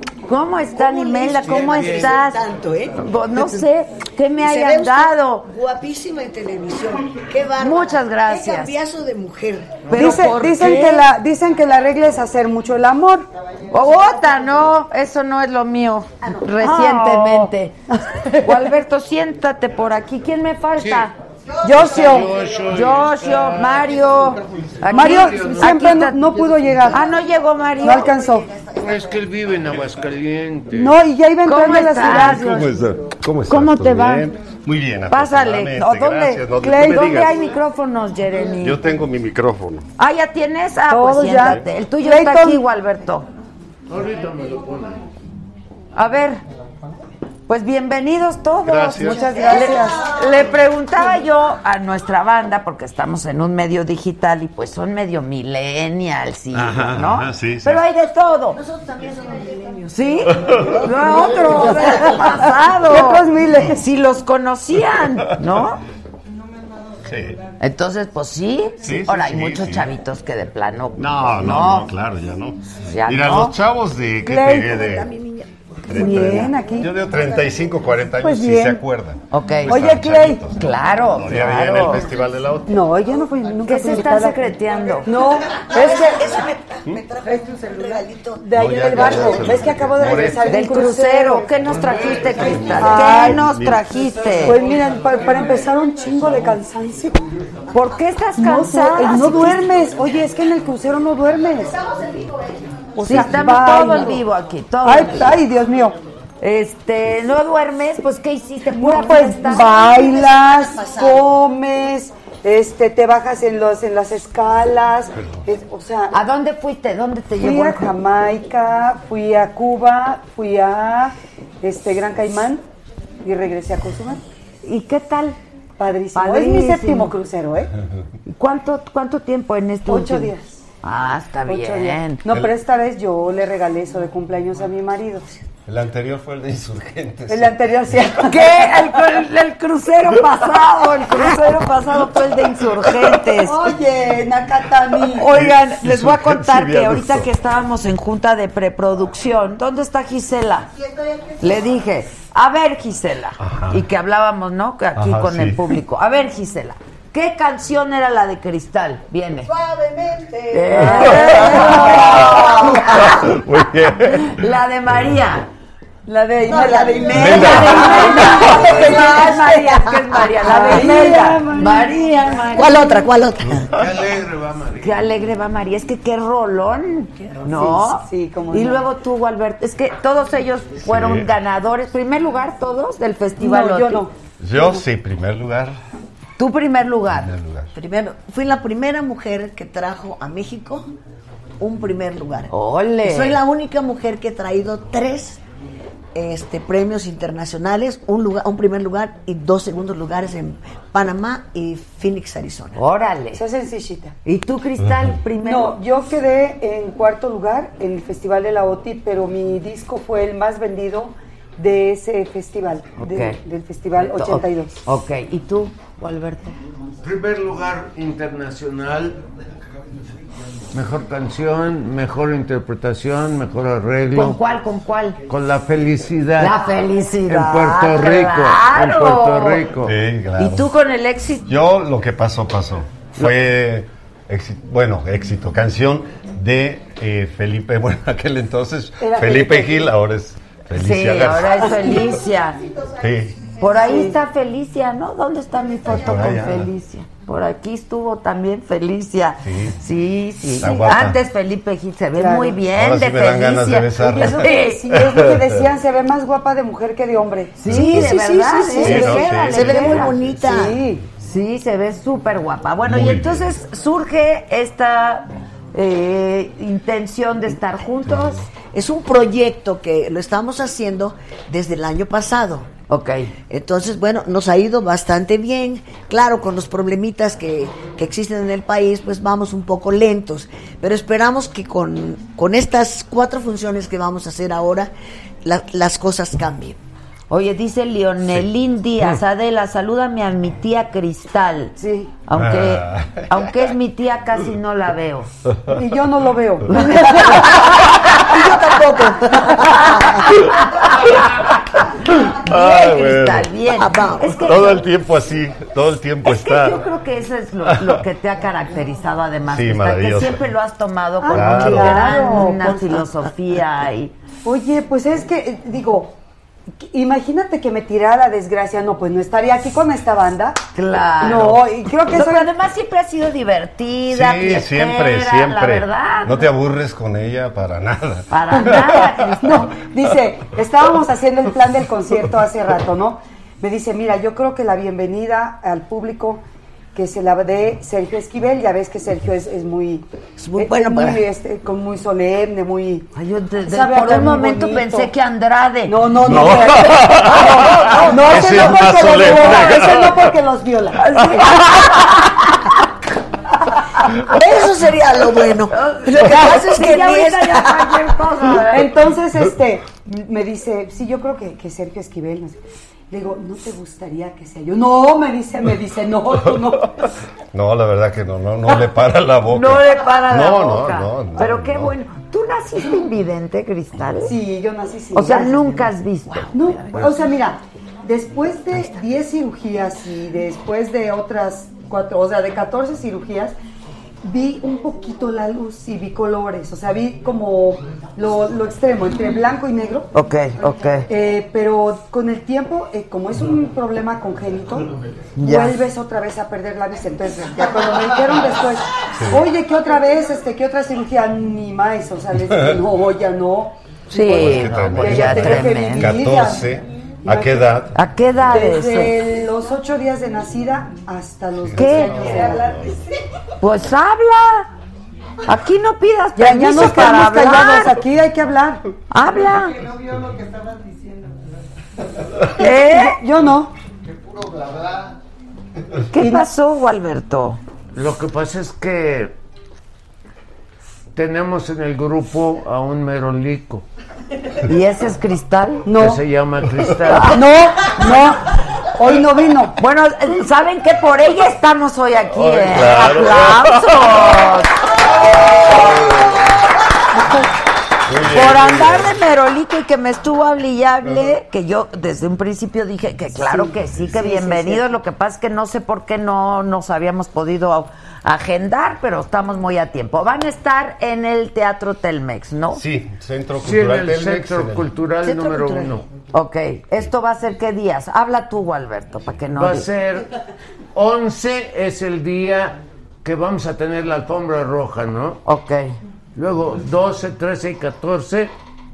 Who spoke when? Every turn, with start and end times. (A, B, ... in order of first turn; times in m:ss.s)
0:00.3-0:02.4 A
0:00.7-0:03.6 B
0:02.9-0:05.5 A
0:04.4-0:09.9 B
0:07.6-0:08.7 A
0:09.9-0:11.1 A
0:09.9-0:13.3 C
0:13.7-0:21.1 A
0:13.7-0:14.5 B
0:16.2-0:16.6 B
0:16.6-0:18.7 C
0:20.8-0:21.1 D
0:21.6-0:22.3 C
0:21.7-0:25.7 D
0:22.2-0:22.5 E
0:22.7-0:28.3 A
0:24.9-0:27.1 C
0:27.0-0:29.2 B
0:27.8-0:28.6 C
0:28.7-0:31.0 D
0:30.7-0:32.5 C
0:31.4-0:32.7 A
0:32.1-0:37.5 F
0:33.5-0:34.3 A
0:35.1-0:38.8 A
0:36.6-0:37.5 C
0:38.6-0:39.9 F
0:40.0-0:43.3 A
0:40.9-0:42.6 C
0:41.4-0:41.6 F
0:43.9-0:45.0 D
0:45.9-0:46.4 A
0:47.5-0:58.6 A
0:48.6-0:49.4 F
0:49.0-0:50.1 C
0:49.2-0:50.6 B
0:56.5-0:57.9 F
0:58.5-1:02.3 B
0:59.9-1:05.8 A
1:00.3-1:00.7 F
1:01.6-1:03.8 C
1:04.9-1:05.7 F
1:07.0-1:07.4 F
1:07.6-1:11.9 A
1:08.8-1:09.9 F
1:11.0-1:15.1 F
1:12.8-1:13.6 A
1:14.3-1:17.4 B
1:14.3-1:14.6 C
1:15.9-1:22.8 F
1:15.9-1:16.9 C
1:18.2-1:18.8 C
1:19.3-1:19.8 A
1:19.7-1:20.4 C
1:20.5-1:22.1 A
1:22.7-1:24.5 C
1:23.7-1:25.1 A
1:25.0-1:26.4 C
1:25.5-1:29.3 B
1:28.4-1:31.9 C
1:28.5-1:30.6 F
1:30.4-1:34.6 A
1:31.6-1:34.5 F
1:32.7-1:33.4 C
1:34.3-1:37.2 C
1:37.7-1:39.6 A
1:38.4-1:41.8 C
1:41.8-1:42.5 B
1:42.9-1:44.2 C
1:43.0-1:45.4 A
1:44.8-1:46.0 C
1:46.4-1:49.8 A
1:48.7-1:56.2 C
1:49.5-1:51.3 B
1:56.1-1:57.9 A
1:57.4-2:02.6 C
2:03.2-2:04.2 C
2:04.6-2:05.4 A
2:05.8-2:07.7 C
2:06.1-2:07.1 A
2:08.3-2:12.2 A
2:09.8-2:10.6 C
2:11.4-2:15.3 C
2:12.2-2:12.5 F
2:15.6-2:18.1 F
2:17.3-2:18.5 C
2:18.2-2:23.6 A
2:20.3-2:20.7 F
2:22.8-2:23.2 F
2:23.4-2:25.3 C
2:25.0-2:27.3 F
2:25.1-2:30.7 A
2:30.9-2:31.4 E
2:31.4-2:39.5 A
2:33.4-2:33.8 F
2:34.9-2:35.8 F
2:39.5-2:41.3 E
2:40.5-2:43.4 A
2:40.6-2:41.0 B
2:40.7-2:45.2 F
2:42.3-2:42.8 B
2:44.1-2:45.5 A
2:46.1-2:53.0 A
2:46.4-2:51.0 B
2:46.5-2:49.5 C
2:47.1-2:48.9 F
2:50.4-2:52.0 C
2:52.4-2:53.7 B
2:53.4-2:53.9 F
2:53.7-2:55.0 D
2:54.8-3:04.1 A
2:57.3-2:57.6 B
2:57.5-2:58.8 C
3:00.8-3:01.3 F
3:03.4-3:04.1 C
3:04.4-3:05.8 F
3:06.4-3:07.3 A
3:07.1-3:07.7 F
3:07.7-3:10.9 B
3:11.6-3:12.5 B
3:12.5-3:13.4 A
3:13.0-3:15.4 B
3:16.1-3:22.8 B
3:22.8-3:23.4 A
3:23.3-3:24.1 C
3:24.2-3:25.8 A
3:24.8-3:25.2 F
3:25.4-3:34.8 C
3:33.0-3:33.4 A
3:33.9-3:36.6 A
3:37.0-3:39.2 D
3:40.7-3:44.4 D
3:44.1-3:45.2 A
3:45.2-3:46.7 D
3:46.4-3:49.6 A
3:47.2-3:49.9 D
3:49.8-3:50.7 F
3:50.4-3:51.4 A
3:51.4-4:02.2 F
3:59.0-3:59.9 C
4:00.7-4:02.6 A
4:01.6-4:02.0 C
4:03.0-4:03.5 F
4:03.6-4:14.9 A
4:03.6-4:04.2 C
4:05.8-4:06.7 F
4:09.4-4:09.8 F
4:10.5-4:11.2 F
4:12.1-4:12.6 C
4:12.6-4:15.6 F
4:14.0-4:17.8 C
4:17.6-4:20.2 A
4:17.6-4:18.2 F
4:17.7-4:20.8 B
4:18.8-4:20.9 F
4:18.8-4:19.2 C
4:19.8-4:21.0 C
4:21.2-4:28.4 A
4:22.8-4:23.6 F
4:28.0-4:28.5 F
4:28.6-4:32.7 B
4:32.9-4:33.3 A
4:33.5-4:44.9 B
4:45.4-4:46.8 B
4:47.3-4:51.7 A
4:48.2-4:48.5 F
4:51.8-4:52.2 C
4:52.3-4:55.3 A
4:52.3-4:53.8 F
4:55.5-4:55.8 F
4:55.7-4:57.1 C
4:56.7-4:58.2 A
4:57.1-4:57.4 F
4:57.4-5:00.1 B
4:59.7-5:01.4 A
5:00.3-5:01.4 F
5:02.0-5:04.8 A
5:02.1-5:03.6 F
5:03.7-5:04.3 B
5:04.2-5:07.0 F
5:06.2-5:14.1 A
5:07.6-5:08.0 F
5:09.5-5:10.4 F
5:11.2-5:13.2 C
5:11.3-5:12.2 F
5:14.4-5:16.1 C
5:16.8-5:20.6 C
5:20.7-5:26.5 A
5:21.2-5:22.5 C
5:24.1-5:29.9 F
5:28.3-5:29.7 A
5:29.4-5:40.0 C
5:40.4-5:41.2 B
5:40.6-5:43.1 C
5:43.1-5:49.8 A
5:43.6-5:45.1 C
5:45.8-5:51.1 C
5:46.2-5:50.4 F
5:51.0-5:52.7 A
5:51.1-5:52.1 F
5:54.2-5:58.1 B
5:55.7-5:58.9 A
5:58.6-6:06.9 C
6:07.0-6:12.0 F
6:09.5-6:14.4 A
6:14.2-6:15.9 C
6:15.1-6:17.0 A
6:16.5-6:23.6 C
6:24.2-6:30.1 C
6:30.1-6:31.1 A
6:31.1-6:46.7 C
6:35.4-6:35.8 A
6:37.9-6:38.3 E
6:39.1-6:39.4 F
6:42.4-6:42.8 F
6:44.1-6:46.2 A
6:44.1-6:48.0 F
6:47.2-6:47.9 C
6:47.9-6:49.2 A
6:48.5-6:52.7 C
6:51.5-6:53.1 F
6:51.8-6:52.6 A
6:52.2-6:53.1 E
6:53.6-6:54.7 A
6:55.4-6:58.0 A
6:56.4-6:58.8 C
6:59.1-6:59.8 A
6:59.2-7:02.3 E
7:02.5-7:03.2 A
7:02.5-7:03.7 C
7:04.0-7:05.2 E
7:06.1-7:07.6 A
7:06.2-7:06.4 C
7:07.9-7:09.3 D
7:11.1-7:13.8 D
7:14.6-7:15.9 A
7:15.8-7:16.2 C
7:15.9-7:17.4 D
7:17.3-7:19.7 C
7:19.8-7:24.8 A
7:22.3-7:24.5 F
7:25.2-7:26.4 F
7:28.0-7:29.2 F
7:28.2-7:42.8 A
7:31.0-7:31.3 F
7:33.4-7:34.9 C
7:33.7-7:34.3 F
7:42.7-7:44.9 F
7:43.6-7:46.0 D
7:45.2-7:46.0 B
7:46.3-7:49.8 A
7:49.5-7:50.3 D
7:50.9-7:55.4 D
7:55.4-7:56.0 A
7:56.3-7:58.5 D